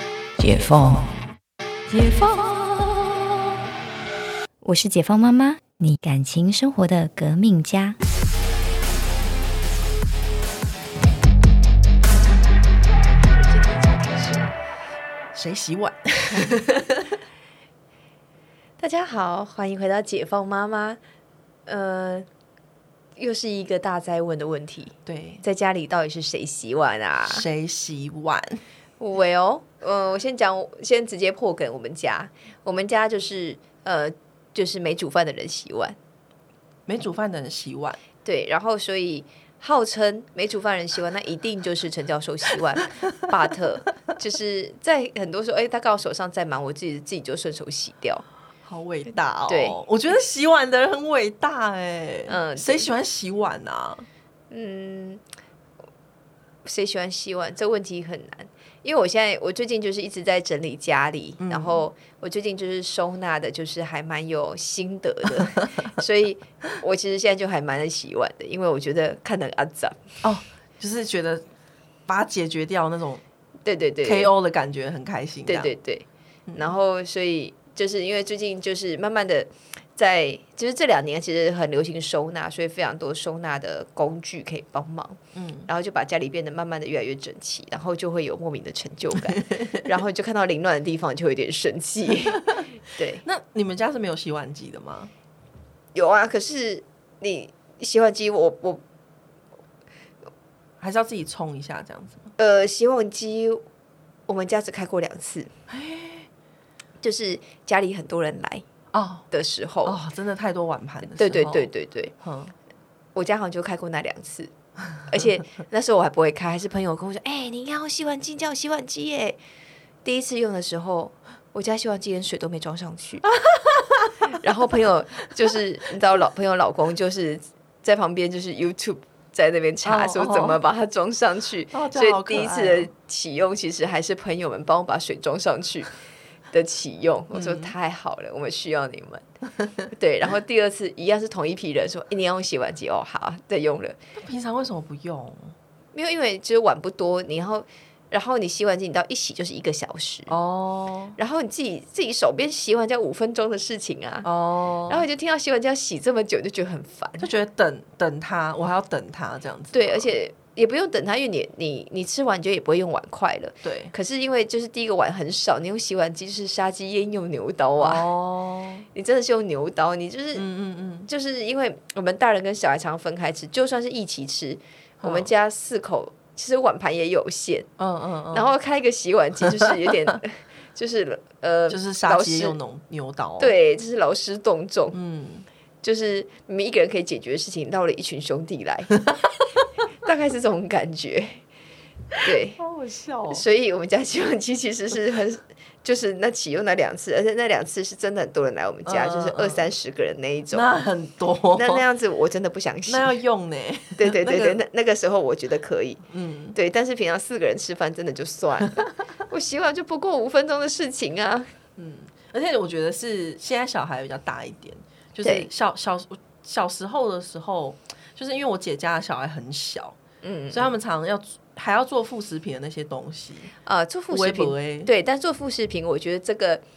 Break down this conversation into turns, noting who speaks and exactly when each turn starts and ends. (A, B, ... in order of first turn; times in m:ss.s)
0:00.4-0:01.1 A
0:01.9-0:02.2 A
0:02.1-0:02.4 B
0:04.6-0:08.0 A
0:13.5-0:14.5 B
0:15.3-0:17.0 C
0:18.8-0:21.0 B
0:21.7-0:22.3 B
0:23.2-0:27.4 B
0:25.0-0:25.4 C
0:27.2-0:28.6 C
0:29.0-0:36.0 B
0:36.9-0:38.0 C
0:38.2-0:48.2 B
0:48.6-0:54.0 C
0:49.5-0:49.8 B
0:52.3-0:52.9 B
0:54.5-0:55.2 B
0:56.6-1:10.0 B
1:01.4-1:01.8 C
1:10.2-1:11.4 C
1:12.1-1:13.2 C
1:13.6-1:14.3 B
1:14.0-1:15.7 C
1:15.4-1:33.2 B
1:16.5-1:16.7 C
1:25.3-1:25.7 C
1:33.2-1:35.1 C
1:35.9-1:38.8 B
1:40.8-1:42.3 C
1:42.4-1:43.6 B
1:44.3-1:45.5 B
1:45.7-1:46.3 C
1:47.0-1:48.6 B
1:48.9-1:49.3 C
1:49.3-1:50.0 B
1:49.8-1:51.7 C
1:51.1-1:52.1 B
1:52.2-1:52.5 C
1:53.1-1:54.5 B
1:55.1-1:59.4 B
2:00.0-2:03.3 B
2:03.5-2:04.1 C
2:04.3-2:15.9 B
2:09.8-2:10.6 C
2:11.7-2:12.9 C
2:16.5-2:19.2 B
2:17.3-2:17.7 C
2:19.9-2:24.0 B
2:24.1-2:25.5 C
2:25.9-2:30.4 B
2:30.3-2:31.2 C
2:31.2-2:34.3 B
2:34.2-2:35.1 C
2:34.9-2:37.3 B
2:37.2-2:40.1 C
2:39.7-2:48.0 B
2:43.6-2:43.9 C
2:47.8-2:48.8 C
2:48.9-2:50.4 B
2:50.3-2:51.1 C
2:51.1-2:57.7 B
2:55.0-2:55.3 C
2:57.8-2:58.5 C
2:58.3-3:02.6 B
2:59.4-3:00.1 C
3:01.7-3:03.6 C
3:03.4-3:05.0 B
3:04.9-3:05.5 C
3:05.8-3:09.0 B
3:10.0-3:11.4 B
3:12.2-3:12.6 B
3:12.6-3:13.4 C
3:13.3-3:20.7 B
3:18.8-3:19.7 C
3:20.5-3:21.8 C
3:21.5-3:23.1 B
3:22.9-3:24.6 C
3:24.0-3:31.5 B
3:26.1-3:26.6 C
3:31.8-3:40.0 C
3:35.2-3:35.5 B
3:40.2-3:40.7 B
3:40.5-3:43.5 C
3:43.6-3:46.6 B
3:44.1-3:44.9 C